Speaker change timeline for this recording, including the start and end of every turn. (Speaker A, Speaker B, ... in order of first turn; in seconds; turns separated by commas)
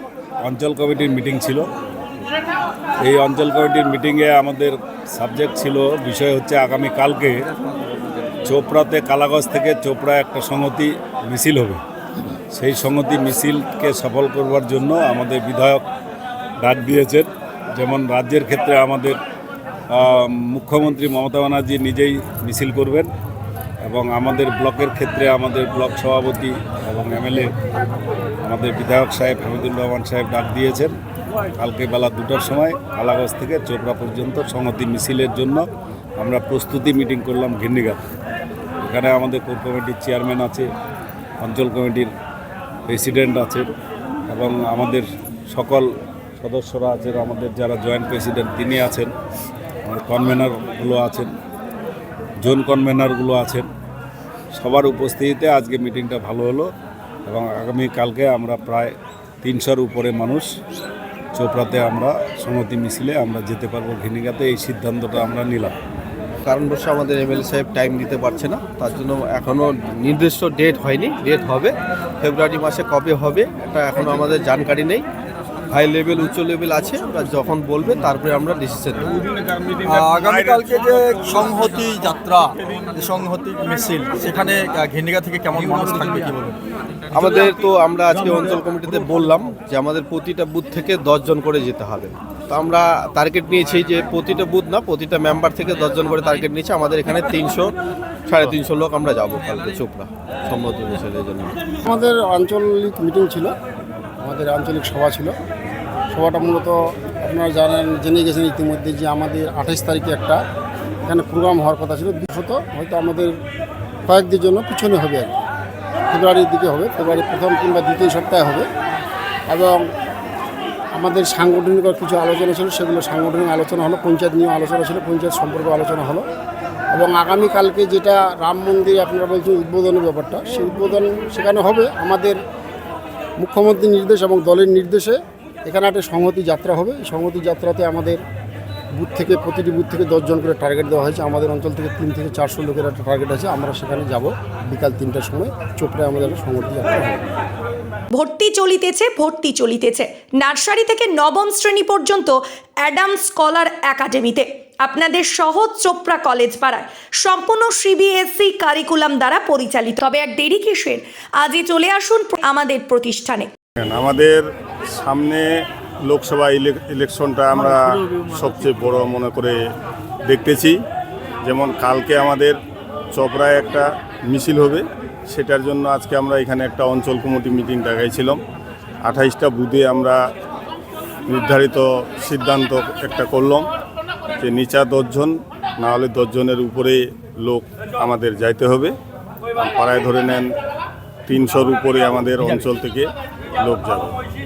Speaker A: 0.4-1.6, Speaker A: 3.0-7.4, Speaker A: 8.5-11.8, Speaker A: 12.5-15.8, Speaker A: 16.6-19.2, Speaker A: 19.9-23.1, Speaker A: 23.8-27.5, Speaker A: 28.4-30.9, Speaker A: 31.6-35.6, Speaker A: 36.2-38.0, Speaker A: 38.8-40.7, Speaker A: 41.4-42.1, Speaker A: 42.9-43.7, Speaker A: 44.3-45.9, Speaker A: 46.4-49.1, Speaker A: 49.9-51.3, Speaker A: 52.4-53.7, Speaker A: 54.5-56.7, Speaker A: 57.3-58.9, Speaker A: 59.4-60.5, Speaker A: 61.4-65.8, Speaker B: 66.5-75.0, Speaker B: 75.7-79.2, Speaker C: 79.8-86.6, Speaker D: 80.0-80.6, Speaker B: 87.2-97.8, Speaker B: 98.3-101.5, Speaker E: 101.8-103.5, Speaker E: 104.2-105.3, Speaker E: 106.1-110.4, Speaker E: 111.0-113.3, Speaker E: 114.1-115.4, Speaker E: 116.1-118.7, Speaker E: 119.5-119.9, Speaker E: 121.0-126.2, Speaker E: 126.9-132.4, Speaker E: 133.4-138.2, Speaker E: 139.0-147.2, Speaker F: 148.2-163.5, Speaker D: 163.8-164.4, Speaker D: 165.0-165.5, Speaker D: 166.1-169.6, Speaker D: 170.3-170.8, Speaker D: 171.4-172.6, Speaker D: 173.1-178.4, Speaker D: 179.0-180.2, Speaker D: 181.3-183.7, Speaker D: 184.4-188.9, Speaker D: 189.6-190.5, Speaker D: 191.3-194.2